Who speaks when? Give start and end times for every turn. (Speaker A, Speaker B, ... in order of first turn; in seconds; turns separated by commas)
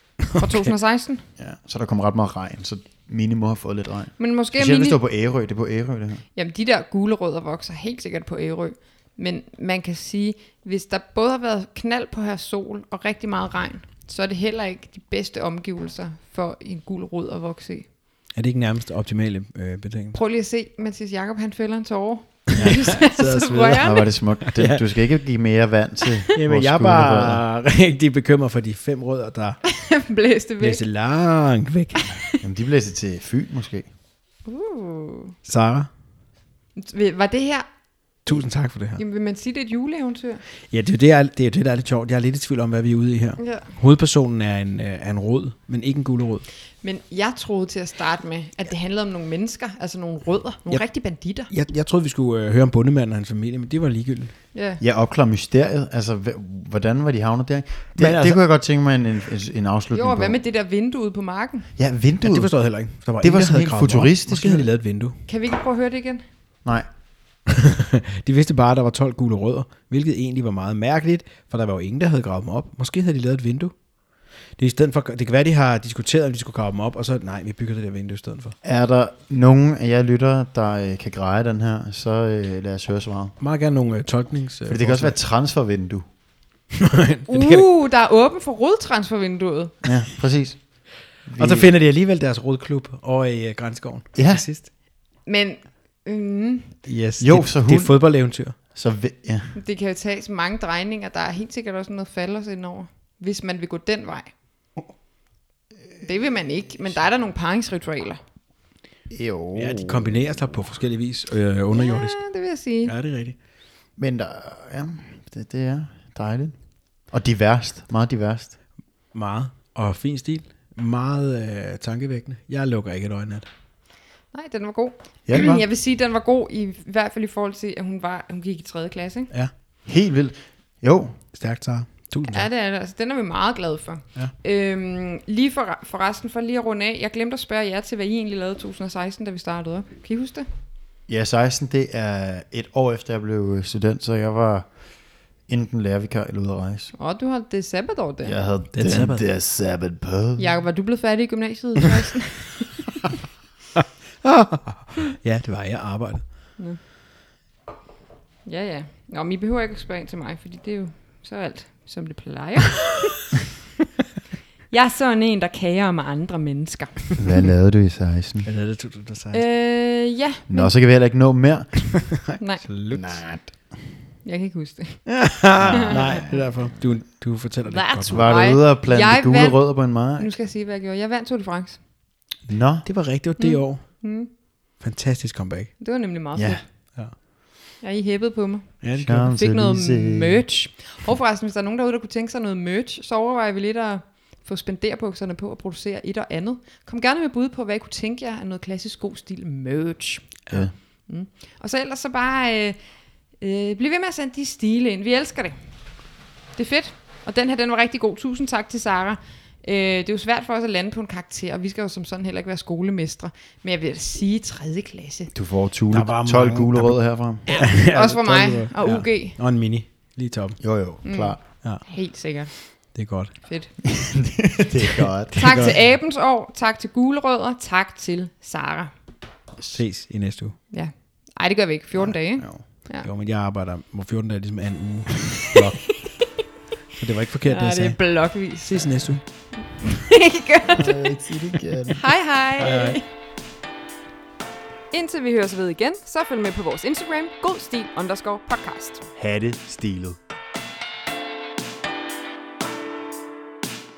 Speaker A: 0.4-1.2, Speaker B: 1.4-6.2, Speaker A: 4.2-5.0, Speaker A: 6.3-17.9, Speaker C: 18.4-20.2, Speaker A: 20.1-24.1, Speaker C: 22.6-23.9, Speaker B: 23.8-27.4, Speaker C: 24.5-24.8, Speaker C: 26.3-29.6, Speaker A: 29.6-30.8, Speaker C: 30.6-32.2, Speaker A: 32.1-32.4, Speaker B: 32.4-33.9, Speaker A: 34.5-35.4, Speaker C: 35.5-35.9, Speaker A: 36.8-37.7, Speaker C: 38.2-39.0, Speaker A: 39.0-40.4, Speaker C: 40.7-46.5, Speaker A: 43.4-43.7, Speaker A: 46.8-51.5, Speaker C: 51.5-54.3, Speaker A: 54.5-54.8, Speaker B: 54.8-60.4, Speaker C: 58.0-58.4, Speaker A: 59.9-61.7, Speaker B: 61.8-62.5, Speaker C: 62.2-65.2, Speaker B: 63.2-64.7, Speaker A: 65.3-66.2, Speaker C: 67.5-73.7, Speaker C: 74.6-78.5, Speaker B: 78.6-83.3, Speaker C: 83.4-85.2, Speaker B: 84.7-86.1, Speaker C: 86.7-87.7, Speaker A: 87.3-89.7, Speaker B: 89.8-90.6, Speaker B: 91.3-91.7, Speaker C: 91.4-94.7, Speaker B: 94.2-94.4, Speaker A: 95.3-96.8, Speaker C: 96.9-98.6, Speaker B: 97.2-98.0, Speaker B: 98.7-99.5, Speaker A: 99.5-104.3, Speaker A: 106.0-108.2, Speaker B: 109.1-110.1, Speaker C: 109.5-112.2, Speaker A: 111.7-112.9, Speaker C: 112.8-113.4, Speaker B: 114.0-116.6, Speaker B: 117.1-118.5, Speaker C: 119.1-123.5, Speaker A: 124.3-129.3, Speaker B: 125.3-125.6, Speaker B: 129.9-131.2, Speaker C: 131.3-132.5, Speaker A: 132.3-140.5, Speaker B: 141.1-144.7, Speaker B: 145.5-146.9, Speaker A: 147.0-148.4, Speaker B: 148.2-150.4, Speaker C: 148.8-149.2, Speaker A: 150.4-152.8, Speaker C: 153.8-156.2, Speaker A: 158.5-163.2, Speaker A: 164.7-167.2, Speaker B: 167.2-168.5, Speaker C: 168.5-169.4, Speaker A: 169.3-170.7, Speaker B: 170.5-171.7, Speaker C: 172.0-173.2, Speaker B: 172.9-173.5, Speaker A: 174.2-175.1, Speaker C: 175.1-178.3, Speaker B: 175.6-176.3, Speaker A: 175.7-176.4, Speaker A: 177.7-179.6, Speaker B: 178.1-180.3, Speaker A: 180.2-181.8, Speaker B: 182.5-182.9, Speaker C: 182.8-184.1, Speaker A: 183.4-184.3, Speaker C: 184.8-185.7, Speaker A: 185.8-186.6, Speaker B: 186.4-186.6, Speaker A: 187.8-200.4, Speaker C: 188.8-189.2, Speaker B: 189.0-190.4, Speaker A: 201.1-202.8, Speaker A: 203.4-205.6, Speaker A: 206.6-215.3, Speaker B: 215.3-217.5, Speaker C: 215.9-220.6, Speaker A: 217.5-219.4, Speaker B: 220.6-221.4, Speaker A: 221.0-222.5, Speaker C: 222.9-223.3, Speaker A: 223.5-223.7, Speaker B: 223.8-225.4, Speaker C: 225.4-225.8, Speaker A: 225.4-228.9, Speaker C: 229.7-230.6, Speaker A: 230.7-233.1, Speaker B: 232.0-232.6, Speaker C: 233.0-236.1, Speaker C: 237.0-239.2, Speaker A: 237.5-241.1, Speaker B: 240.7-242.0, Speaker A: 241.9-243.0, Speaker C: 242.6-243.0, Speaker A: 244.9-249.0, Speaker B: 249.2-250.2